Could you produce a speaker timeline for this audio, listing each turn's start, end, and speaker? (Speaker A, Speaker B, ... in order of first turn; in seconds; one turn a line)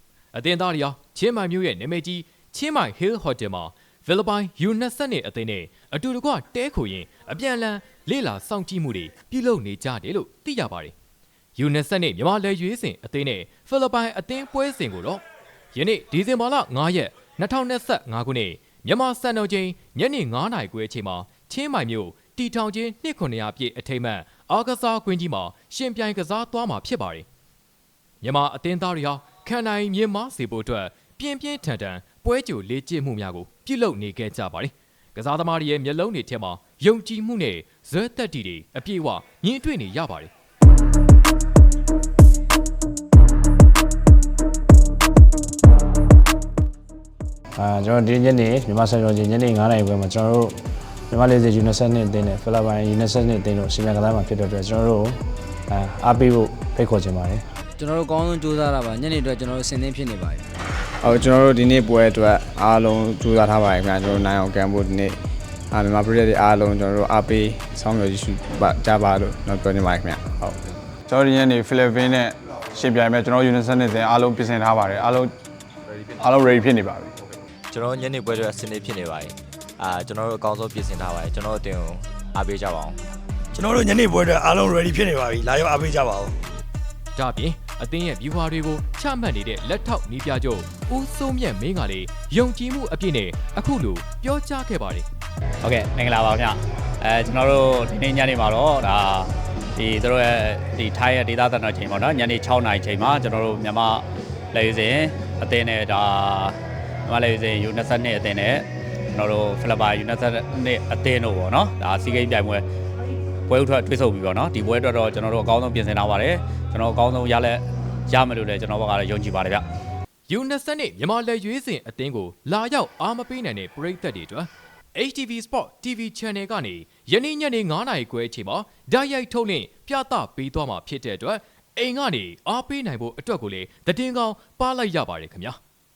Speaker A: 0.3-10.9
Speaker A: 11.6-15.2
Speaker A: 15.7-27.2
Speaker A: 28.2-40.3
Speaker B: 47.5-50.6
Speaker B: 51.1-55.2
Speaker B: 55.7-57.4
Speaker C: 57.8-60.4
Speaker D: 61.0-65.2
Speaker D: 65.7-70.6
Speaker E: 71.1-75.3
Speaker E: 76.0-77.1
Speaker F: 77.7-83.0
Speaker G: 83.5-86.4
Speaker A: 87.1-95.0
Speaker H: 95.6-106.5
Speaker H: 107.1-112.6
Speaker H: 113.5-119.6
Speaker A: 120.3-135.6